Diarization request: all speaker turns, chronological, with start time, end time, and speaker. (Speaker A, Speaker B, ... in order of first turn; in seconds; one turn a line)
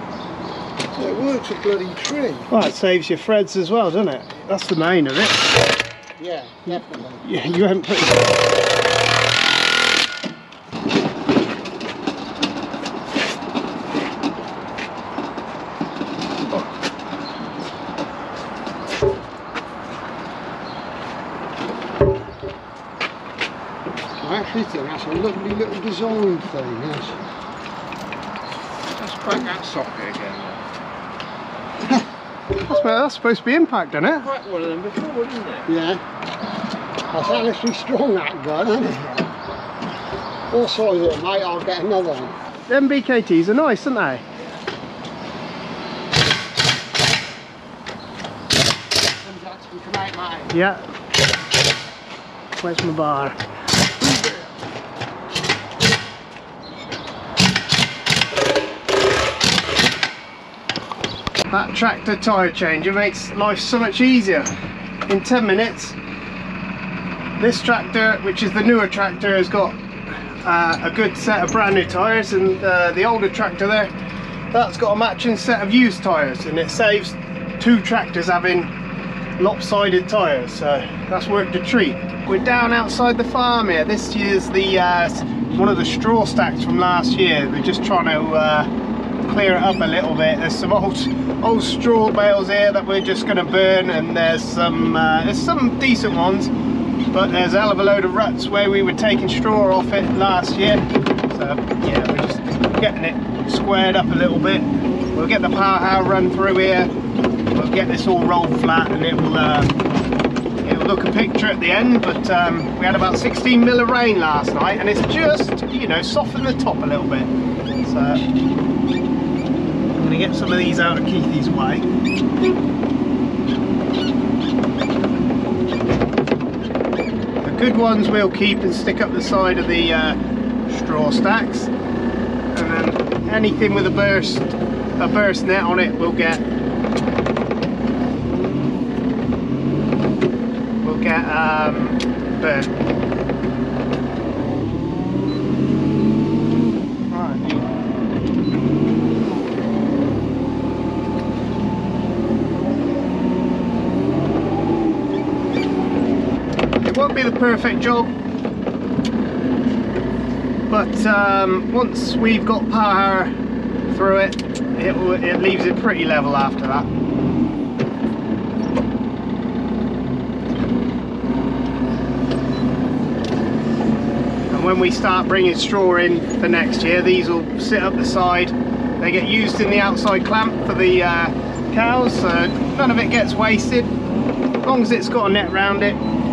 Speaker A: 0.9-2.5
Speaker B: 2.5-5.5
Speaker A: 6.2-7.2
Speaker B: 6.7-8.4
Speaker A: 24.2-27.2
Speaker C: 28.9-30.6
Speaker B: 32.5-34.3
Speaker C: 34.2-35.7
Speaker A: 35.6-36.0
Speaker A: 37.1-39.3
Speaker A: 40.5-42.4
Speaker B: 42.7-44.2
Speaker A: 49.2-50.5
Speaker B: 50.5-50.8
Speaker B: 52.6-53.4
Speaker B: 61.5-64.5
Speaker B: 65.1-66.0
Speaker B: 67.4-73.9
Speaker B: 74.5-78.7
Speaker B: 79.4-88.7
Speaker B: 89.2-96.5
Speaker B: 97.1-106.9
Speaker B: 107.5-109.8
Speaker B: 110.6-117.3
Speaker B: 117.8-118.2
Speaker B: 119.9-121.8
Speaker B: 127.4-130.2
Speaker B: 130.7-131.7
Speaker B: 132.5-136.4
Speaker B: 140.8-142.7
Speaker B: 147.1-147.7
Speaker B: 156.8-158.1
Speaker B: 160.7-163.3
Speaker B: 163.9-166.9
Speaker B: 174.5-183.9
Speaker B: 184.6-186.0